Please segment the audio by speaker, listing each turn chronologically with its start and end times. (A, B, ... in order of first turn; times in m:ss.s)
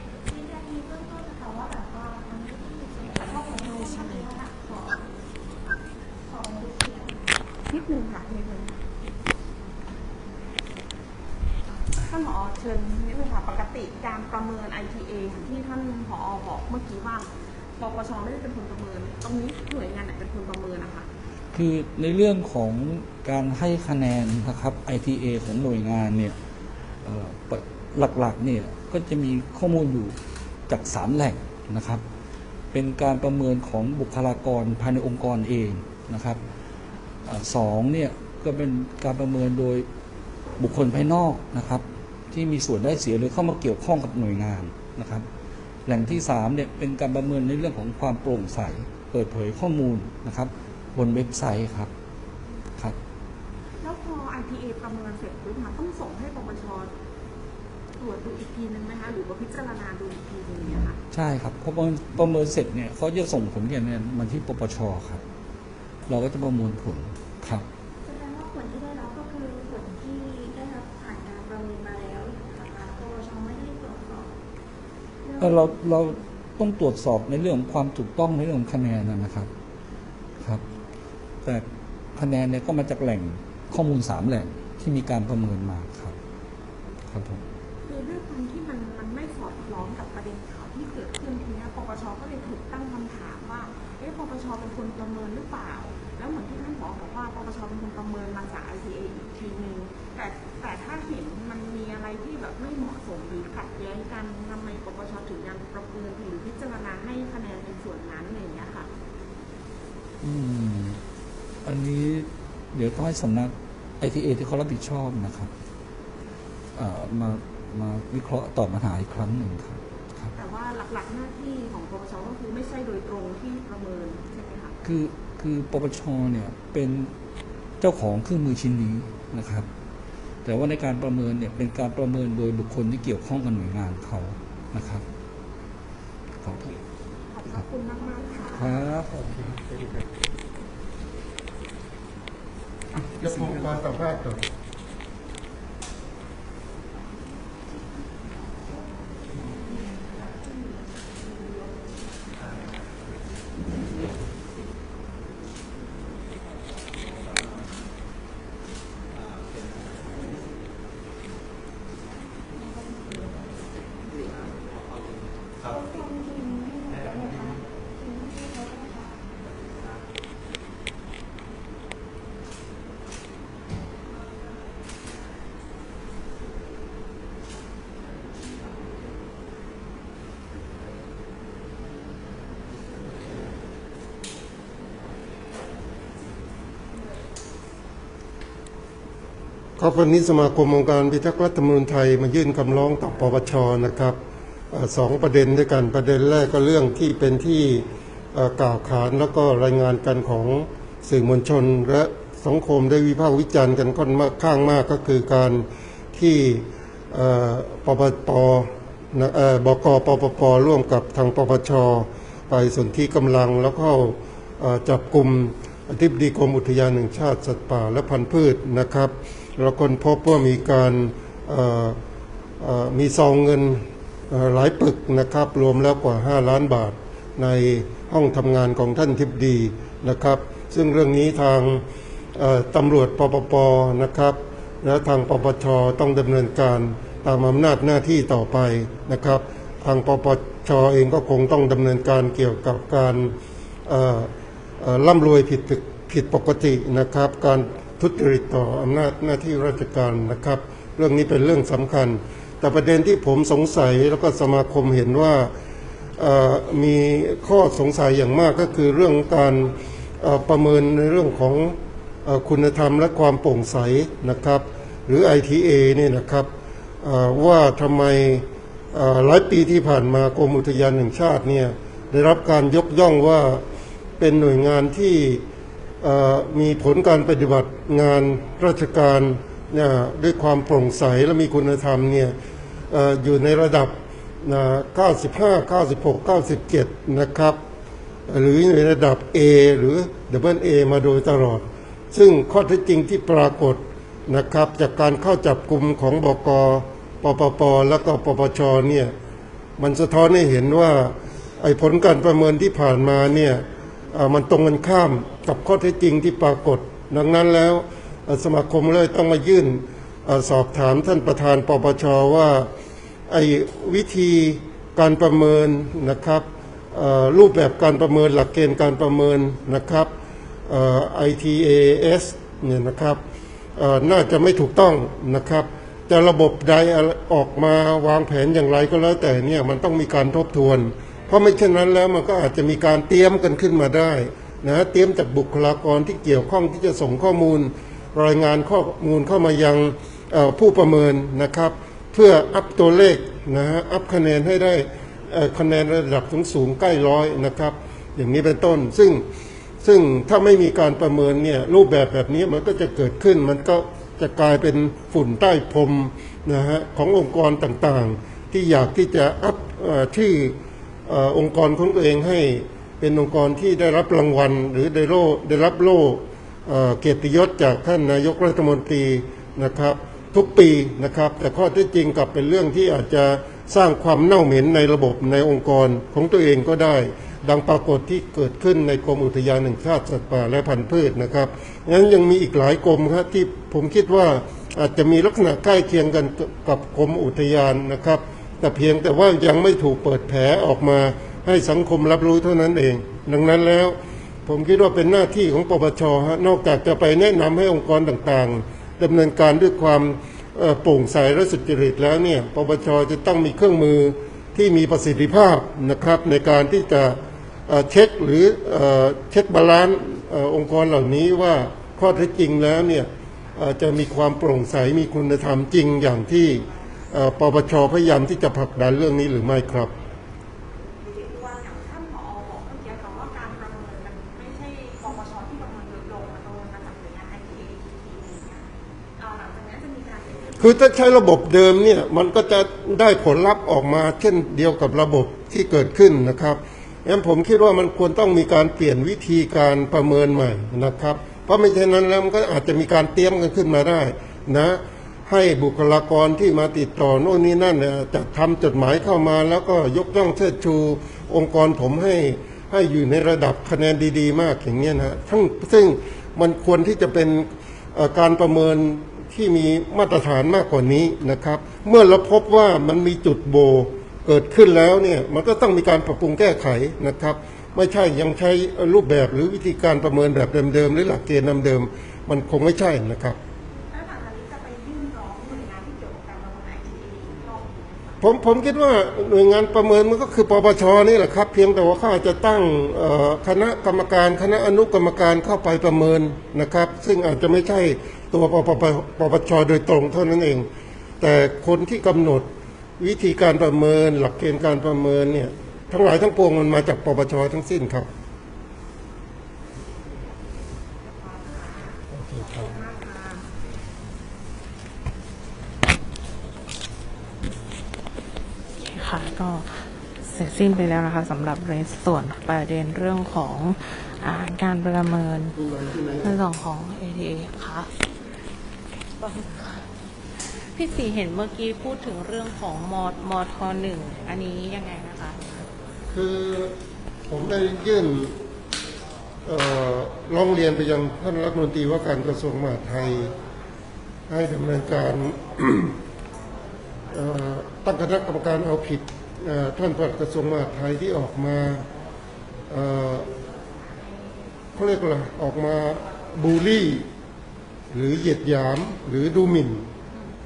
0:00.2-0:05.0 A
0:03.0-0:04.4 B
0:06.3-0:07.2 A
0:07.7-0:08.8 B
0:11.7-0:21.1 B
0:21.5-0:26.4 C
0:27.0-0:30.2 C
0:30.7-0:32.0 C
0:32.7-0:36.4 C
0:37.2-0:39.9 C
0:40.6-0:45.3 C
0:45.8-0:51.9 C
0:53.8-0:56.9 B
0:58.0-1:01.0 B
1:01.1-1:05.2 C
1:06.1-1:07.7 C
1:08.0-1:14.3 A
1:15.2-1:16.2 A
1:15.4-1:19.5 C
1:20.4-1:20.6 C
1:21.4-1:26.2 C
1:27.1-1:27.4 C
1:27.8-1:48.9 B
1:50.2-1:51.0 C
1:51.6-1:55.5 C
1:56.7-2:00.3 C
2:00.4-2:04.8 B
2:04.8-2:07.1 C
2:07.8-2:09.7 C
2:10.4-2:15.0 C
2:16.4-2:16.7 C
2:17.3-2:18.8 B
2:18.5-2:19.3 C
2:19.1-2:19.9 D
2:23.0-2:24.4 D
2:29.3-2:32.0 B
2:42.5-2:43.4 A
2:45.6-2:49.2 A
3:09.8-3:14.2 D
3:14.7-3:42.0 D
3:42.6-3:51.8 D
3:52.3-4:03.3 D
4:03.8-4:15.5 D
4:16.2-4:26.5 D
4:27.0-4:33.6 D
4:34.2-4:35.4 D
4:36.0-4:42.4 D
4:42.9-4:47.6 D
4:48.3-4:59.1 D
4:59.8-5:12.7 D
5:13.3-5:20.1 D
5:20.7-5:23.2 D
5:23.8-5:49.2 D
5:49.8-6:00.6 D
6:01.1-6:47.2 D
6:47.7-6:59.9 D
7:01.0-7:11.0 B
7:10.6-7:53.4 D
7:53.8-7:58.2 B
7:58.2-8:10.7 D
8:11.2-8:18.1 D
8:21.0-8:23.4 B
8:22.1-8:22.6 D
8:28.8-8:35.6 E
8:35.5-8:36.4 D
8:36.2-8:37.9 E
8:39.2-8:39.8 E
8:40.4-8:45.4 E
8:46.1-8:46.7 D
8:47.3-8:48.4 D
8:49.4-8:53.3 D
8:54.3-8:56.0 D
8:57.1-9:01.8 D
9:02.7-9:03.3 D
9:04.8-9:07.1 D
9:07.9-9:09.9 D